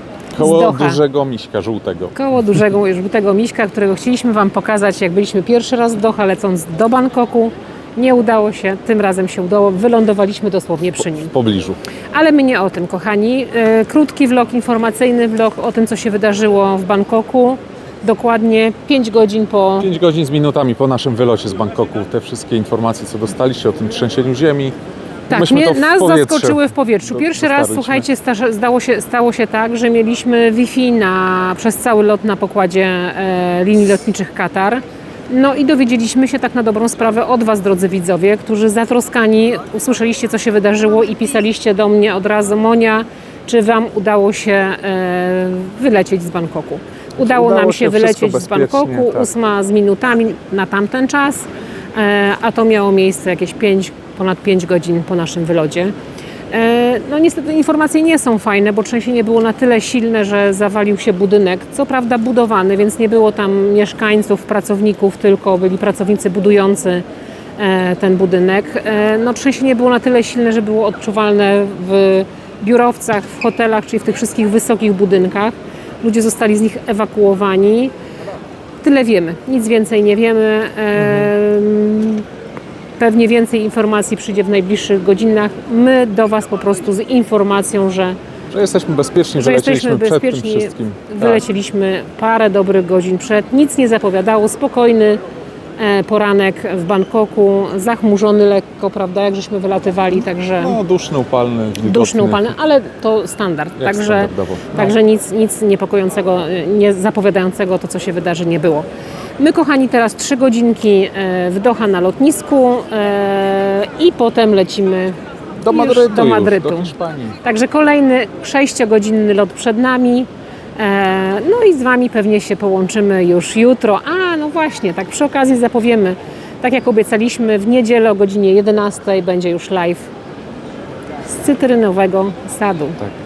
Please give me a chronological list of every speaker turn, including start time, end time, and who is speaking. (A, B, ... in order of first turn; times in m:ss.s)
0:00.3-0:02.2 A
0:00.4-0:01.0 B
0:02.1-0:11.3 B
0:11.2-0:11.8 A
0:12.1-0:19.9 B
0:19.8-0:24.7 A
0:25.3-0:55.9 B
0:25.3-0:28.1 A
0:47.2-0:49.3 A
0:56.5-1:07.0 B
1:07.6-1:17.9 B
1:18.8-1:22.2 B
1:23.0-1:28.2 B
1:28.5-1:31.4 A
1:29.4-1:35.2 B
1:35.8-1:40.8 B
1:40.6-1:42.5 A
1:41.8-1:48.8 B
1:43.8-1:44.9 A
1:49.4-2:10.1 B
1:55.6-1:57.4 A
2:11.2-2:13.0 B